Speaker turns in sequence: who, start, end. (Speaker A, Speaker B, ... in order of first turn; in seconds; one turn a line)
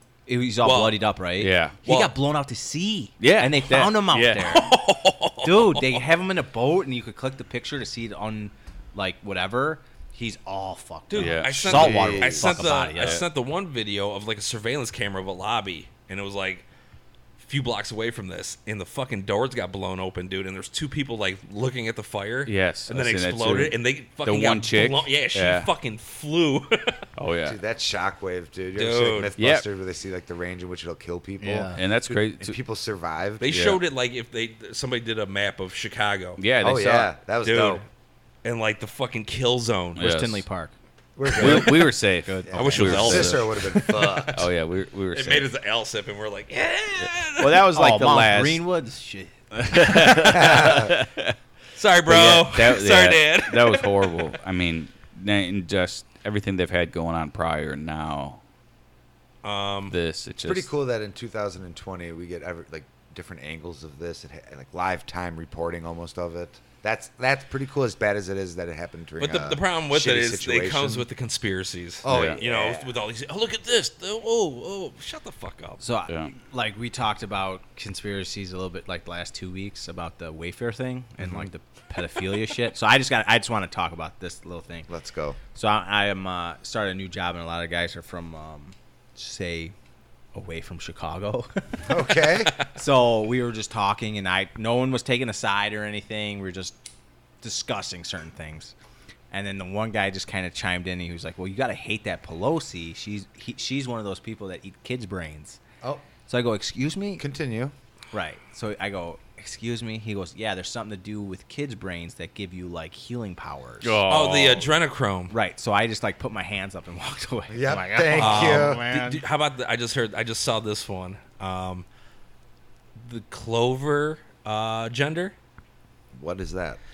Speaker A: 0.3-4.8
Speaker B: 0.6-1.0
Speaker C: 1.4-1.8
Speaker B: 1.9-2.1
Speaker C: 3.2-4.6
Speaker B: 4.4-6.1
Speaker A: 5.4-13.2
Speaker B: 11.1-16.7
Speaker C: 11.1-11.9
Speaker D: 11.6-12.7
Speaker C: 13.0-13.2
Speaker B: 17.4-27.0
Speaker C: 22.5-25.7
Speaker C: 27.2-27.6
Speaker D: 27.4-33.5
Speaker B: 28.8-29.3
Speaker C: 29.4-29.7
Speaker A: 31.4-31.8
Speaker C: 31.7-32.6
Speaker B: 33.4-36.4
Speaker C: 33.5-33.8
Speaker C: 36.4-37.1
Speaker D: 36.6-37.8
Speaker B: 37.4-37.9
Speaker B: 38.4-40.0
Speaker C: 40.0-40.4
Speaker A: 40.0-40.7
Speaker D: 41.2-44.5
Speaker A: 41.3-43.4
Speaker C: 41.4-43.4
Speaker B: 42.6-44.3
Speaker C: 44.0-45.5
Speaker B: 45.1-47.6
Speaker C: 47.0-48.6
Speaker A: 47.7-50.9
Speaker C: 49.7-51.4
Speaker D: 50.2-50.9
Speaker B: 51.8-54.0
Speaker C: 52.1-58.4
Speaker B: 59.4-60.0
Speaker C: 59.9-60.7
Speaker D: 60.5-71.1
Speaker B: 69.2-75.8
Speaker D: 72.0-72.9
Speaker C: 72.1-72.4
Speaker A: 75.8-84.9
Speaker D: 84.9-85.4
Speaker A: 85.5-89.7
Speaker A: 90.3-96.8
Speaker D: 91.9-92.5
Speaker A: 97.4-98.7
Speaker A: 99.3-105.6
Speaker A: 106.3-107.2
Speaker D: 107.2-107.7
Speaker A: 108.1-114.0
Speaker C: 113.8-114.7
Speaker B: 114.1-115.3
Speaker A: 115.3-119.2
Speaker D: 117.5-118.9
Speaker B: 118.2-121.9
Speaker B: 123.0-125.3
Speaker D: 126.1-126.8